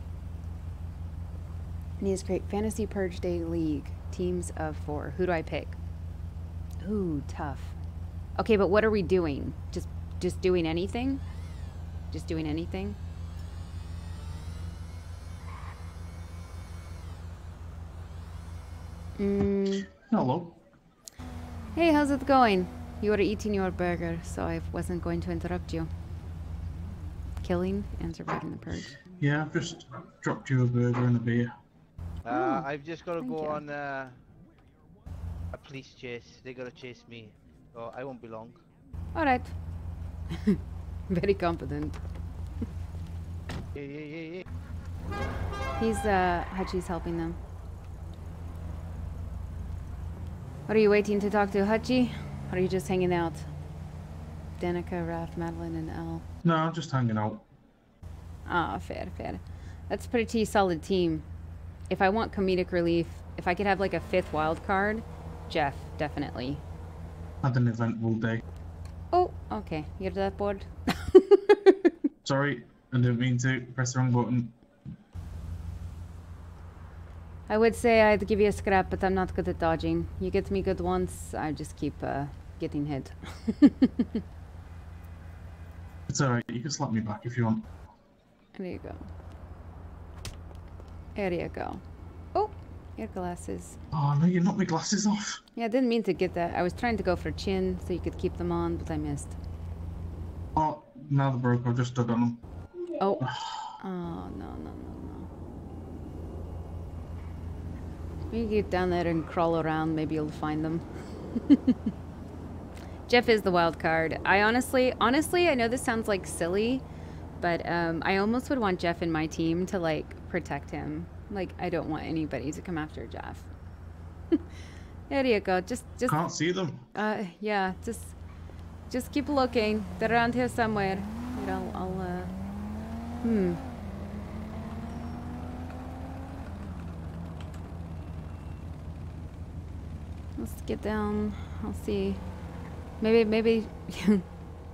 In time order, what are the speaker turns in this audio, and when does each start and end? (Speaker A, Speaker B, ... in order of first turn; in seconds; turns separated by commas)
Speaker A: 2.0-5.8, Speaker A: 6.8-7.8, Speaker A: 8.4-11.2, Speaker A: 12.1-13.0, Speaker A: 19.2-19.9, Speaker B: 19.7-20.6, Speaker A: 21.7-25.9, Speaker A: 27.4-29.0, Speaker B: 29.2-31.5, Speaker C: 32.2-34.2, Speaker A: 32.2-33.6, Speaker C: 35.5-38.6, Speaker A: 39.1-39.5, Speaker A: 41.1-42.0, Speaker C: 43.7-44.4, Speaker A: 45.8-47.4, Speaker A: 50.7-53.5, Speaker A: 54.6-56.2, Speaker B: 56.4-57.4, Speaker A: 58.5-61.2, Speaker A: 61.9-66.6, Speaker B: 67.4-68.4, Speaker A: 69.1-71.9, Speaker B: 72.2-74.5, Speaker A: 77.5-84.2, Speaker B: 86.1-87.7, Speaker A: 88.5-89.0, Speaker A: 91.1-91.8, Speaker A: 92.3-93.8, Speaker B: 93.9-95.4, Speaker A: 95.5-99.4, Speaker B: 100.5-102.4, Speaker A: 103.0-103.2, Speaker B: 103.2-103.7, Speaker A: 103.8-105.3, Speaker A: 108.3-111.8, Speaker A: 113.1-116.8, Speaker A: 117.4-123.5, Speaker A: 125.1-126.2, Speaker B: 126.1-126.8, Speaker A: 126.9-128.1, Speaker A: 128.9-132.3, Speaker A: 133.2-133.6, Speaker A: 140.3-142.2, Speaker A: 143.0-144.2